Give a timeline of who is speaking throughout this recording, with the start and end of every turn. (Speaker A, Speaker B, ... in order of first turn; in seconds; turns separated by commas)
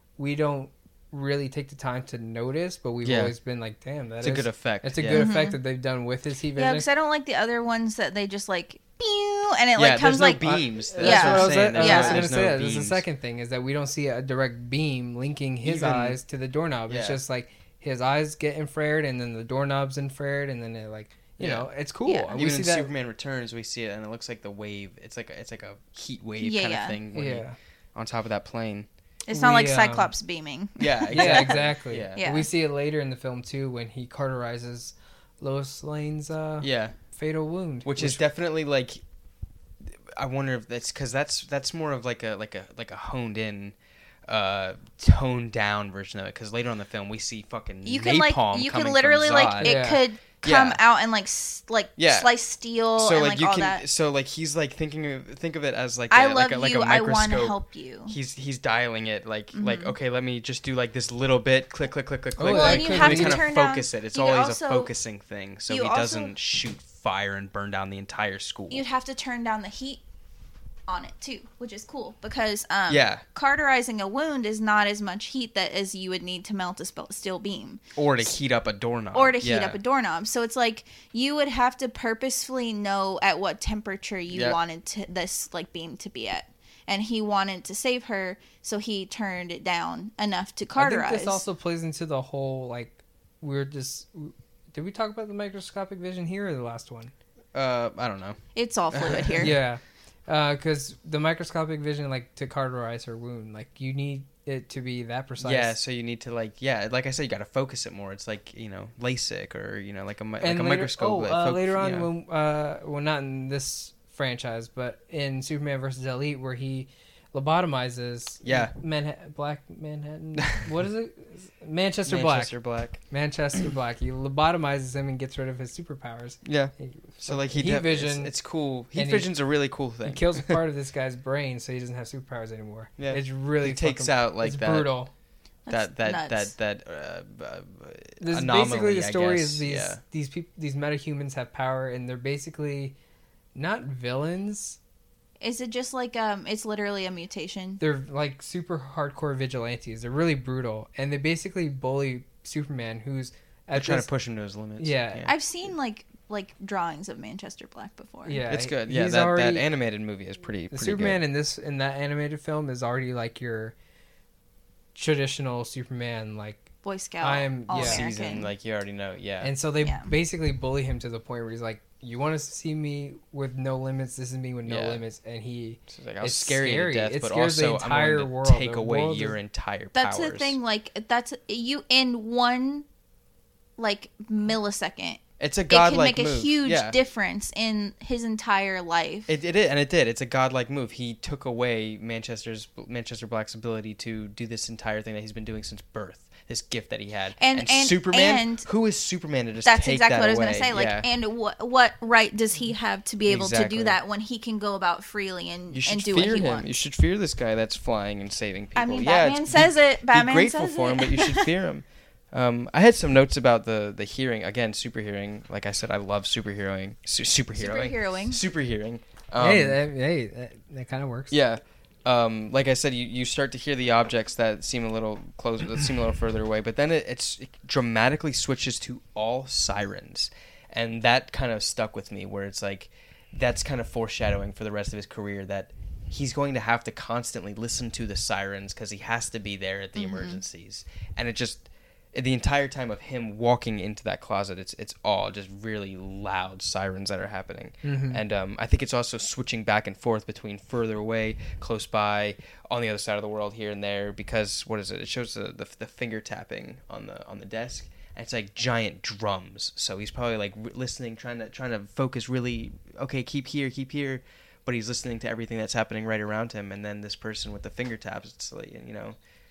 Speaker A: 0.2-6.9, Speaker B: 3.0-3.3, Speaker B: 4.2-5.3, Speaker C: 5.1-5.6, Speaker C: 6.6-12.2, Speaker B: 9.8-13.0, Speaker A: 10.9-22.9, Speaker B: 15.6-16.2, Speaker B: 16.9-17.2, Speaker B: 21.4-21.7, Speaker C: 22.1-22.4, Speaker B: 22.4-28.9, Speaker C: 26.4-27.0, Speaker A: 27.1-27.6, Speaker C: 29.3-31.6, Speaker A: 29.3-30.1, Speaker B: 30.8-32.2, Speaker A: 31.1-38.2, Speaker C: 32.2-32.5, Speaker B: 36.6-37.0, Speaker B: 37.9-39.0, Speaker B: 39.9-49.9, Speaker C: 47.9-53.8, Speaker A: 49.6-50.0, Speaker B: 50.4-50.8, Speaker B: 52.0-52.3, Speaker B: 53.0-57.5, Speaker C: 56.1-58.1, Speaker B: 58.1-68.8, Speaker C: 59.5-60.0, Speaker A: 62.4-63.4, Speaker C: 62.5-64.9, Speaker C: 65.7-66.3, Speaker C: 68.7-70.0, Speaker C: 70.9-77.8, Speaker B: 72.9-73.2, Speaker B: 78.0-79.8, Speaker C: 79.1-91.4, Speaker B: 84.3-84.6, Speaker A: 90.8-97.1, Speaker B: 97.5-98.4, Speaker C: 98.5-99.5, Speaker B: 98.9-99.6, Speaker A: 99.4-105.8, Speaker B: 105.4-112.1, Speaker A: 110.4-122.5, Speaker B: 118.4-118.7, Speaker B: 122.1-123.0, Speaker A: 123.1-128.3, Speaker B: 126.5-130.6, Speaker A: 128.9-129.3, Speaker A: 130.1-135.1, Speaker B: 133.0-134.9, Speaker C: 135.7-136.5, Speaker B: 135.7-140.0, Speaker A: 138.2-143.0, Speaker A: 143.6-144.8, Speaker C: 145.4-147.8, Speaker A: 147.8-154.1, Speaker B: 153.7-155.3, Speaker A: 154.8-155.3, Speaker C: 155.2-158.4, Speaker A: 158.2-159.7, Speaker B: 158.5-161.2, Speaker A: 160.7-163.8, Speaker A: 164.9-166.7, Speaker C: 166.8-168.5, Speaker A: 167.2-168.1, Speaker B: 167.7-169.5, Speaker A: 169.4-179.4, Speaker C: 169.8-170.1, Speaker B: 174.7-175.0, Speaker B: 175.9-180.6, Speaker C: 179.9-182.9, Speaker C: 183.8-189.3, Speaker B: 185.4-187.0, Speaker B: 189.3-201.1, Speaker C: 197.4-198.7, Speaker C: 199.7-206.7, Speaker B: 203.3-204.0, Speaker B: 205.7-219.8, Speaker C: 208.8-211.5, Speaker C: 217.6-218.4, Speaker A: 219.4-221.3, Speaker B: 221.3-269.2, Speaker C: 240.0-240.4, Speaker A: 247.8-248.2